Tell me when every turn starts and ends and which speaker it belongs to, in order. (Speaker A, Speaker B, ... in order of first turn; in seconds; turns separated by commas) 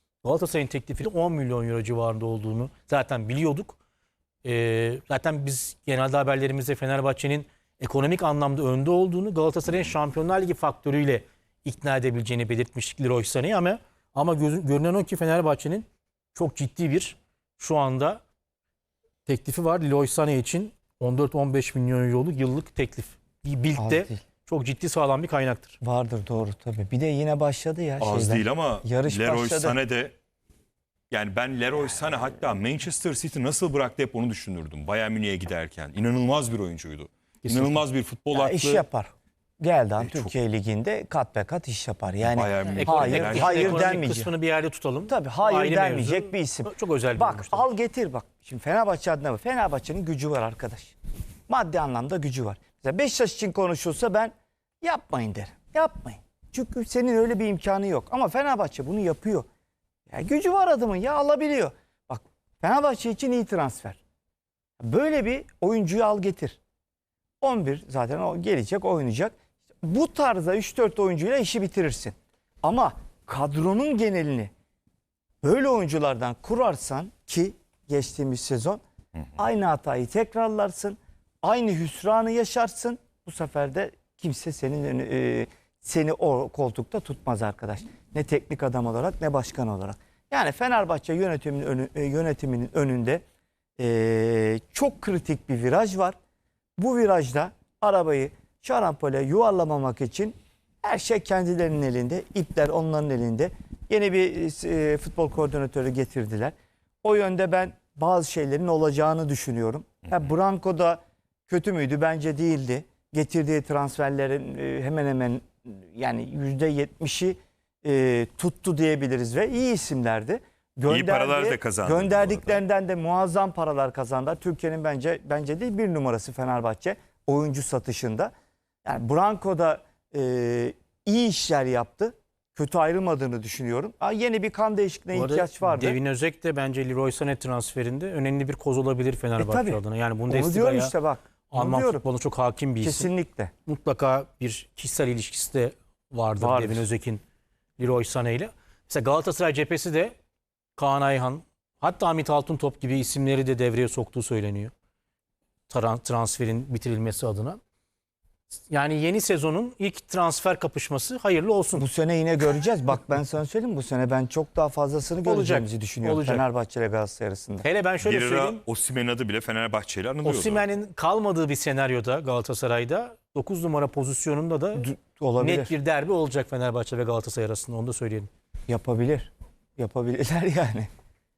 Speaker A: 0.2-3.8, Speaker A: 4.4-18.2, Speaker A: 19.2-25.8, Speaker B: 23.8-24.2, Speaker B: 25.8-29.8, Speaker C: 28.0-30.1, Speaker C: 31.1-38.9, Speaker B: 31.7-32.6, Speaker A: 37.4-37.8, Speaker B: 38.3-44.3, Speaker C: 40.0-40.3, Speaker C: 42.2-44.0, Speaker A: 42.7-47.7, Speaker B: 45.1-50.9, Speaker B: 51.5-59.5, Speaker B: 60.1-64.0, Speaker B: 64.8-66.6, Speaker B: 67.4-74.5, Speaker B: 75.4-78.8, Speaker B: 79.4-93.2, Speaker B: 93.8-96.2, Speaker B: 96.8-128.3, Speaker C: 120.9-122.6, Speaker B: 128.8-136.0, Speaker A: 135.1-140.9, Speaker B: 139.4-142.0, Speaker A: 141.5-143.1, Speaker B: 142.8-143.5, Speaker A: 143.7-147.2, Speaker B: 146.4-146.9, Speaker A: 147.8-150.1, Speaker A: 150.8-154.7, Speaker A: 155.7-157.6, Speaker A: 158.7-161.9, Speaker B: 161.8-167.7, Speaker A: 165.2-166.4, Speaker A: 167.6-168.6, Speaker C: 168.0-170.7, Speaker A: 170.2-178.3, Speaker B: 174.8-175.7, Speaker B: 178.7-180.9